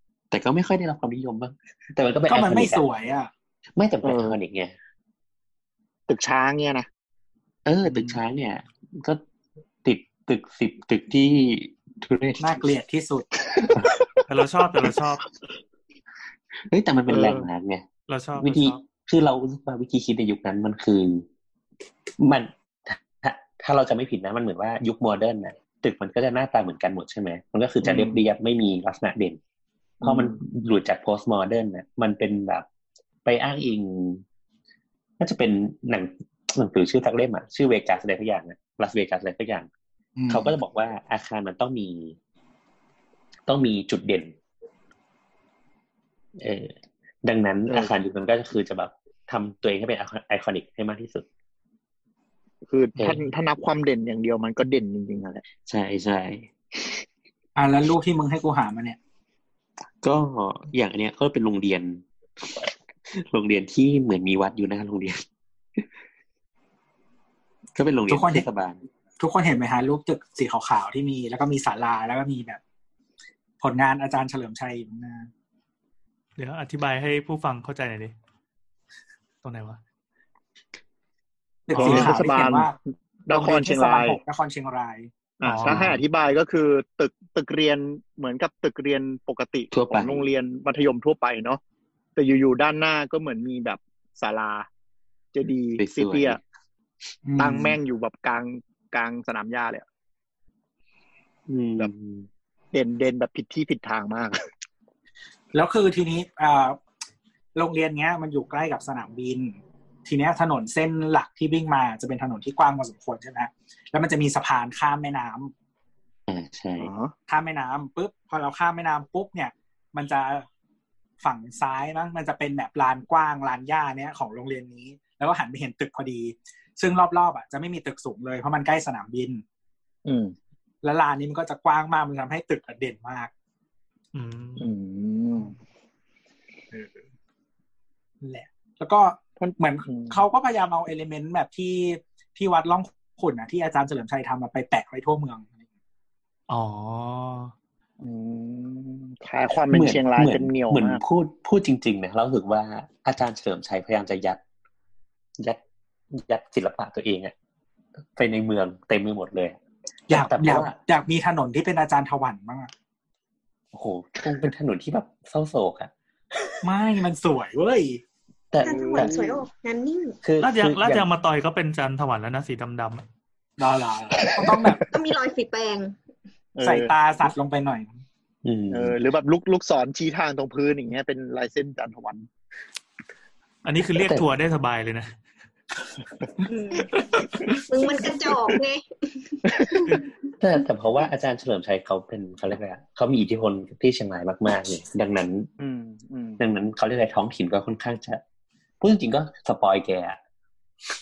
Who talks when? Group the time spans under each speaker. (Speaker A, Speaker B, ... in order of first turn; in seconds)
Speaker A: 0.3-2.9, 3.8-4.7, 7.7-9.2, 9.8-12.6, 16.7-17.9, 18.4-21.3, 22.2-29.4, 30.0-32.7, 33.2-34.2, 35.2-39.7, 40.3-42.2, 43.5-44.4, 46.4-51.3, 53.0-53.2, 55.6-57.0, 60.0-65.2, 67.8-68.8, 81.8-82.1, 89.7-90.3, 95.8-96.4, 101.5-102.3, 116.3-116.9, 149.7-154.4, 156.1-157.3, 158.2-159.6, 160.1-160.8, 163.7-165.9, 168.5-169.2, 170.2-171.1, 178.4-179.0, 184.0-184.3, 190.4-195.5, 196.4-198.2, 198.8-200.2
Speaker B: 2.3-3.3, 12.4-13.3, 40.2-40.5, 57.6-59.0, 68.1-68.5, 69.2-72.6, 73.6-75.3, 81.7-82.7, 83.3-85.1, 97.2-97.8, 105.5-106.8, 107.5-115.5, 117.3-120.5, 121.2-129.4, 130.8-133.3, 136.7-137.0, 138.2-145.5, 160.1-162.7, 166.6-168.0, 173.6-174.8, 176.6-177.9
Speaker C: 4.0-4.4, 6.1-6.9, 17.1-17.5, 27.8-28.2, 30.0-30.4, 52.7-55.4, 81.7-84.2, 85.4-91.6, 92.2-94.7, 95.3-96.4, 97.4-99.9, 102.7-104.4, 116.8-117.1, 130.1-130.3, 134.6-135.5, 139.4-140.2, 148.0-151.0, 168.6-169.4, 174.5-174.8, 176.6-176.9, 178.7-182.3, 195.6-196.4
Speaker D: 14.3-15.2, 18.1-18.8, 76.4-78.1, 79.4-79.8, 85.4-86.0, 134.1-134.7, 146.5-147.5, 170.4-173.1, 183.7-185.1
Speaker E: 168.6-170.2, 174.9-176.0, 186.5-186.9, 187.7-189.4